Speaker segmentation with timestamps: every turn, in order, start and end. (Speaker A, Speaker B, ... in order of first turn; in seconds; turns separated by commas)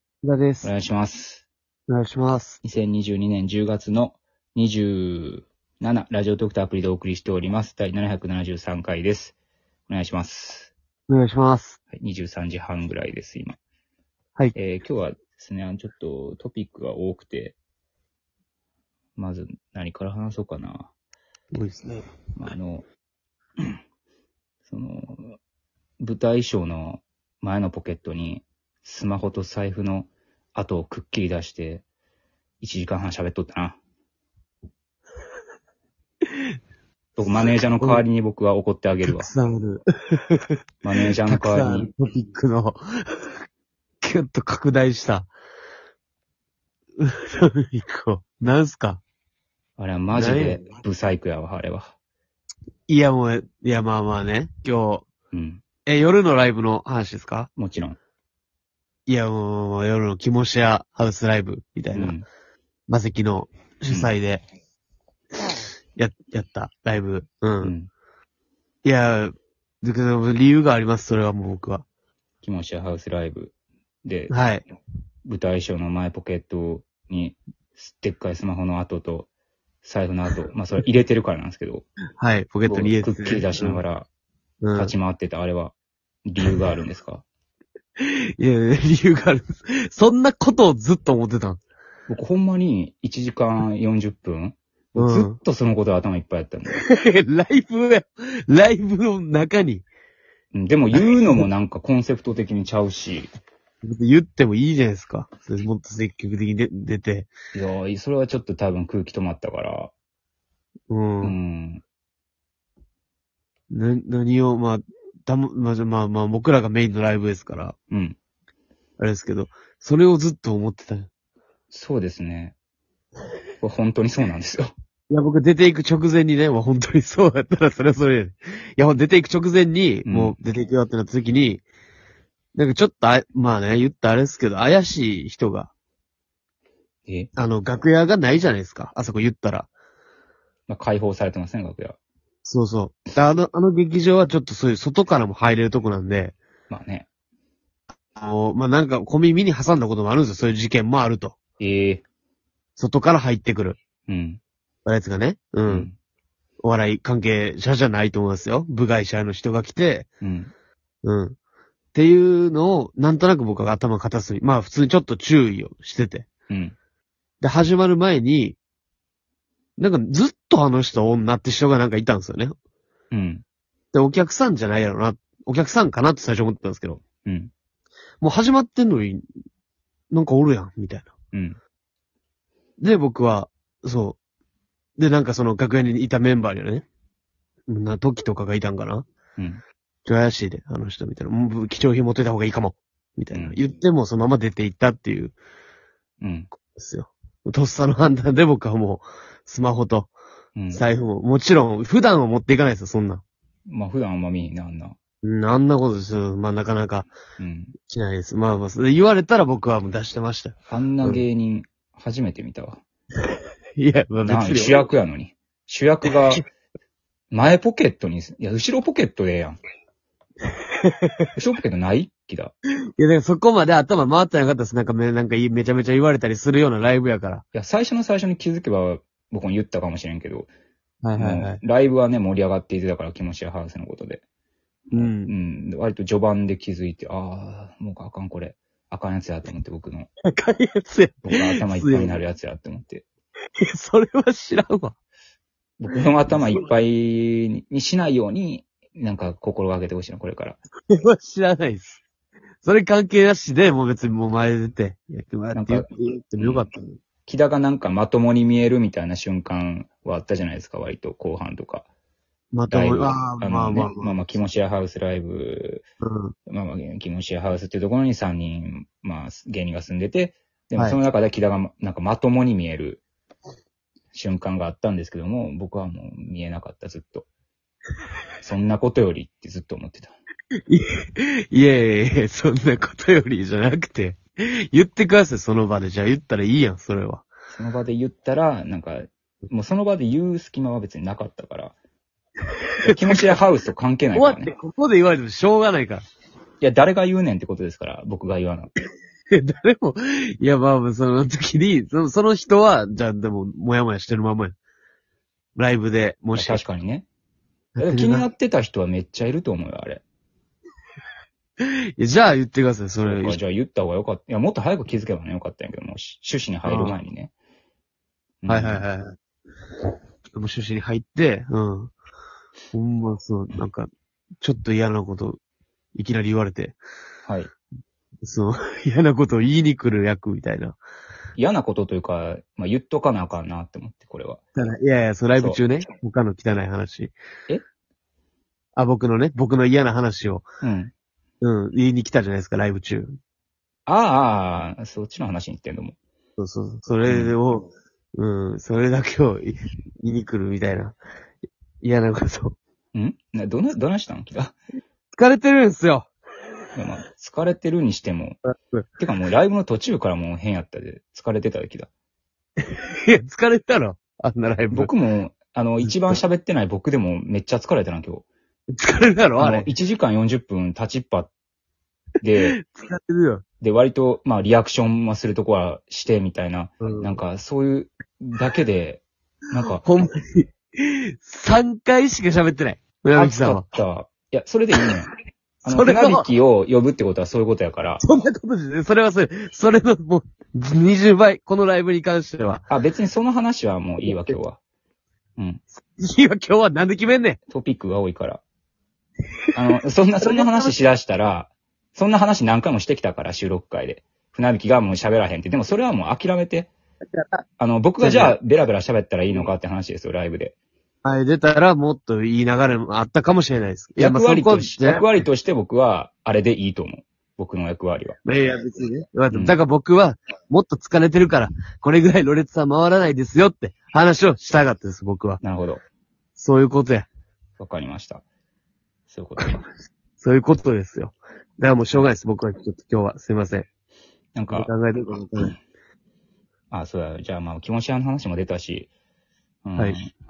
Speaker A: 0.2-0.7, Speaker B: 0.6-1.4, Speaker A: 1.9-2.6, Speaker B: 2.6-9.3, Speaker B: 9.9-10.7, Speaker A: 11.1-11.8, Speaker B: 11.9-13.6, Speaker B: 14.5-17.6, Speaker B: 19.1-20.9, Speaker A: 21.5-22.0, Speaker B: 22.4-22.8, Speaker B: 24.7-25.4, Speaker B: 26.0-31.8, Speaker B: 32.6-33.8, Speaker B: 37.1-39.3, Speaker A: 39.0-40.4, Speaker B: 40.8-41.9, Speaker A: 41.2-43.3, Speaker A: 44.0-45.3, Speaker A: 47.0-49.0, Speaker B: 49.8-51.9, Speaker A: 50.1-50.6, Speaker A: 52.9-55.1, Speaker B: 55.3-55.6, Speaker A: 55.9-57.5, Speaker B: 57.6-58.0, Speaker A: 59.1-62.1, Speaker B: 61.9-62.3, Speaker A: 62.9-64.4, Speaker A: 66.0-67.7, Speaker B: 67.6-67.9, Speaker A: 68.8-71.8, Speaker B: 72.4-73.5, Speaker B: 74.0-74.3, Speaker A: 74.3-74.6, Speaker B: 75.2-79.3, Speaker B: 79.8-81.8, Speaker A: 82.2-83.8, Speaker B: 82.6-84.1, Speaker A: 84.6-84.9, Speaker B: 84.7-85.7, Speaker B: 86.2-87.2, Speaker A: 88.0-91.6, Speaker B: 92.1-96.8, Speaker A: 94.9-95.4, Speaker A: 96.7-99.8, Speaker B: 100.5-103.3, Speaker A: 100.9-101.4, Speaker A: 103.8-107.3, Speaker B: 107.5-109.9, Speaker A: 110.9-111.3, Speaker B: 111.2-111.8, Speaker A: 113.7-117.7, Speaker B: 117.9-118.2, Speaker A: 119.0-121.1, Speaker B: 121.7-122.5, Speaker B: 123.6-124.7, Speaker A: 125.1-131.6, Speaker B: 130.0-130.3, Speaker A: 132.5-135.7, Speaker A: 137.3-139.7, Speaker B: 140.7-141.9, Speaker A: 142.4-146.3, Speaker B: 146.7-147.1, Speaker A: 148.1-151.3, Speaker B: 151.6-152.0, Speaker A: 152.8-153.8, Speaker B: 154.1-154.4, Speaker A: 154.8-155.9, Speaker B: 155.7-155.9, Speaker A: 156.6-160.1, Speaker B: 160.2-160.5, Speaker A: 161.0-161.3, Speaker A: 161.9-166.3, Speaker B: 166.5-166.7, Speaker A: 167.4-168.6, Speaker A: 169.8-172.5, Speaker B: 173.1-173.4, Speaker A: 173.9-177.0, Speaker B: 177.2-177.5, Speaker A: 178.2-179.2, Speaker A: 180.1-181.1, Speaker A: 182.8-184.2, Speaker A: 185.0-186.8, Speaker A: 187.7-189.0, Speaker A: 190.0-195.3, Speaker B: 196.2-196.5, Speaker A: 196.7-200.1, Speaker B: 200.6-200.8, Speaker A: 200.7-203.2, Speaker B: 203.7-204.9, Speaker A: 205.2-207.1, Speaker B: 207.4-207.7, Speaker A: 207.9-211.2, Speaker B: 210.7-212.8, Speaker A: 213.8-214.8, Speaker B: 214.2-216.4, Speaker A: 216.1-216.4, Speaker B: 217.3-219.6, Speaker A: 220.8-221.2, Speaker B: 221.4-222.5, Speaker A: 223.0-227.4, Speaker B: 227.5-230.5, Speaker A: 231.0-231.6, Speaker B: 231.2-234.2, Speaker B: 234.9-240.1, Speaker A: 234.9-235.3, Speaker A: 240.2-242.2, Speaker B: 241.2-243.0, Speaker A: 243.6-244.9, Speaker B: 245.8-250.6, Speaker A: 246.2-246.6, Speaker A: 250.9-252.0, Speaker A: 252.6-257.0, Speaker B: 255.5-255.9, Speaker B: 256.4-256.7, Speaker B: 257.3-261.9, Speaker A: 262.5-264.2, Speaker B: 262.7-265.8, Speaker A: 266.0-266.3, Speaker B: 266.5-273.0, Speaker B: 274.1-277.3, Speaker B: 278.4-280.1, Speaker A: 280.7-287.3, Speaker B: 287.5-291.7, Speaker A: 292.8-293.4, Speaker B: 292.8-294.5, Speaker A: 294.1-296.0, Speaker B: 296.6-298.7, Speaker A: 299.3-304.5, Speaker A: 305.6-306.6, Speaker B: 306.3-307.1, Speaker A: 307.8-308.2, Speaker B: 307.8-310.0, Speaker A: 311.6-313.4, Speaker B: 313.0-317.3, Speaker A: 316.6-317.0, Speaker B: 318.4-318.8, Speaker A: 318.5-319.1, Speaker A: 320.3-321.9, Speaker A: 322.7-323.9, Speaker A: 324.4-325.4, Speaker A: 325.9-326.8, Speaker A: 328.2-330.8, Speaker B: 331.4-334.4, Speaker A: 334.6-337.1, Speaker B: 335.4-335.6, Speaker A: 338.8-340.4, Speaker B: 340.6-340.9, Speaker A: 341.4-343.1, Speaker B: 343.9-345.9, Speaker A: 346.4-351.0, Speaker B: 347.1-347.4, Speaker A: 351.8-352.6, Speaker B: 352.9-354.6, Speaker A: 355.1-356.1, Speaker B: 356.8-358.4, Speaker B: 359.0-361.9, Speaker A: 362.6-364.9, Speaker B: 364.7-368.2, Speaker A: 365.8-366.2, Speaker A: 368.8-369.7, Speaker B: 369.4-371.3, Speaker B: 372.2-372.6, Speaker A: 372.5-373.4, Speaker B: 373.6-379.8, Speaker A: 376.8-377.2, Speaker A: 379.8-383.6, Speaker B: 383.1-385.1, Speaker A: 385.6-386.3, Speaker B: 385.6-388.0, Speaker A: 388.0-392.6, Speaker B: 392.7-394.6, Speaker A: 394.0-394.4, Speaker A: 395.7-397.4, Speaker B: 397.5-398.4, Speaker B: 399.5-406.7, Speaker A: 400.2-400.7, Speaker A: 407.1-407.4, Speaker B: 407.6-410.5, Speaker A: 408.0-408.3, Speaker A: 411.0-415.1, Speaker B: 414.0-418.2, Speaker A: 418.2-425.4, Speaker B: 419.3-419.6, Speaker B: 425.4-425.8, Speaker A: 426.4-427.1, Speaker B: 427.6-428.2, Speaker B: 429.1-429.6, Speaker A: 430.2-433.7, Speaker B: 434.3-434.7, Speaker A: 434.5-435.6, Speaker B: 436.7-438.9, Speaker B: 439.6-440.1